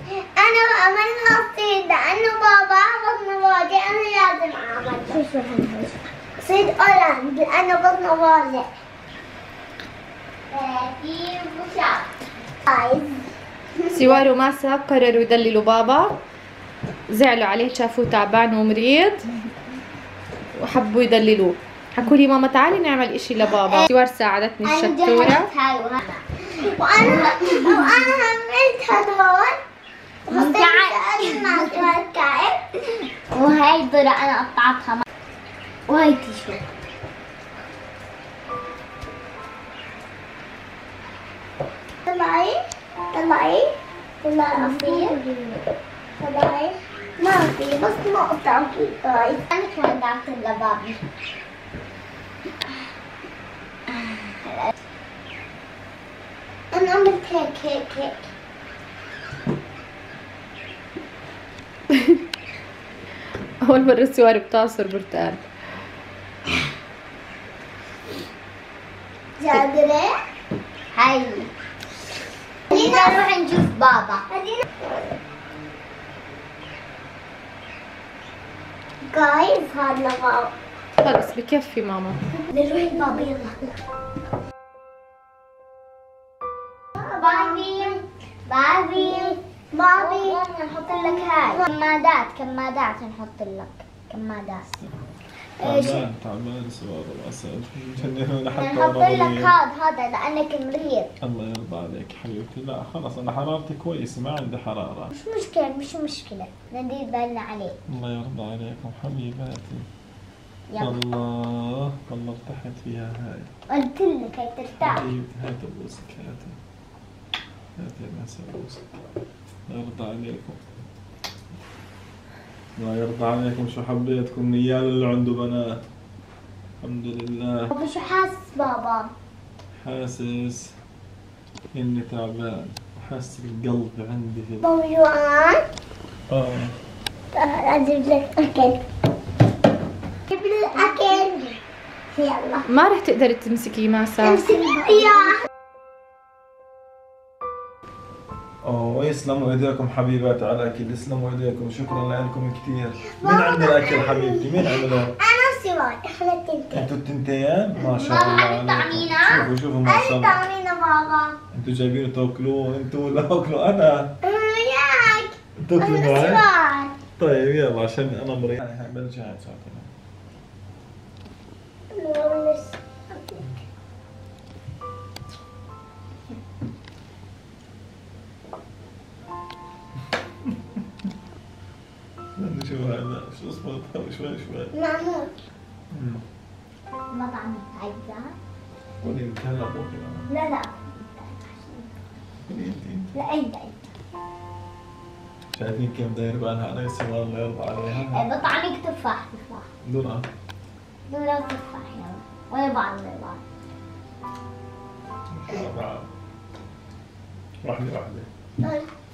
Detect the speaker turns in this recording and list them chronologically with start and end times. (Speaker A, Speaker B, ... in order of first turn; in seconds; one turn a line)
Speaker A: 0.4-8.7
Speaker B: 10.5-12.1
Speaker A: 12.7-13.2
Speaker A: 13.8-14.2
Speaker C: 13.9-16.2
Speaker C: 17.1-19.3
Speaker C: 20.6-25.5
Speaker B: 24.6-26.2
Speaker A: 26.6-29.6
Speaker B: 27.0-28.0
Speaker A: 30.3-32.6
Speaker B: 30.3-31.9
Speaker B: 33.3-35.0
Speaker B: 35.9-36.6
Speaker A: 42.1-42.6
Speaker A: 43.1-43.7
Speaker A: 44.2-45.4
Speaker B: 44.6-45.6
Speaker A: 46.2-49.4
Speaker B: 49.5-51.0
Speaker B: 53.9-54.7
Speaker A: 56.7-58.3
Speaker C: 61.9-62.2
Speaker C: 63.6-65.5
Speaker A: 69.4-70.1
Speaker B: 70.9-71.5
Speaker B: 72.7-74.3
Speaker A: 72.7-73.1
Speaker A: 74.3-74.6
Speaker A: 79.1-80.5
Speaker C: 81.0-82.2
Speaker A: 82.4-83.7
Speaker B: 82.9-83.3
Speaker A: 87.0-87.6
Speaker B: 87.0-89.4
Speaker A: 89.0-90.4
Speaker B: 90.0-94.7
Speaker A: 91.2-91.7
Speaker B: 95.6-96.0
Speaker D: 95.6-99.5
Speaker B: 98.5-101.1
Speaker D: 101.2-105.1
Speaker B: 105.2-107.8
Speaker D: 107.9-109.8
Speaker B: 110.7-111.0
Speaker D: 110.8-113.5
Speaker B: 113.7-115.1
Speaker D: 114.8-116.6
Speaker D: 117.8-119.0
Speaker D: 119.7-120.6
Speaker D: 122.8-125.8
Speaker D: 126.8-127.7
Speaker B: 127.7-129.1
Speaker D: 129.8-130.7
Speaker D: 131.7-134.7
Speaker A: 134.6-135.6
Speaker D: 136.3-136.7
Speaker A: 137.3-138.8
Speaker A: 140.3-141.6
Speaker B: 140.8-141.1
Speaker A: 142.2-142.7
Speaker C: 142.7-144.5
Speaker A: 144.2-145.4
Speaker D: 148.6-155.2
Speaker A: 153.1-156.9
Speaker D: 156.7-160.4
Speaker A: 157.8-158.2
Speaker B: 158.0-159.5
Speaker A: 159.8-161.4
Speaker D: 161.5-164.1
Speaker A: 164.2-166.9
Speaker D: 165.6-166.4
Speaker D: 167.2-169.9
Speaker A: 171.9-173.4
Speaker D: 182.4-184.7
Speaker A: 184.7-185.3
Speaker D: 185.9-186.2
Speaker B: 187.1-188.3
Speaker D: 189.0-190.3
Speaker A: 190.3-191.6
Speaker D: 192.5-193.1
Speaker B: 193.2-193.8
Speaker D: 195.5-198.3
Speaker B: 198.1-199.7
Speaker D: 199.8-200.3
Speaker B: 201.1-203.4
Speaker D: 205.3-206.1
Speaker D: 207.6-208.3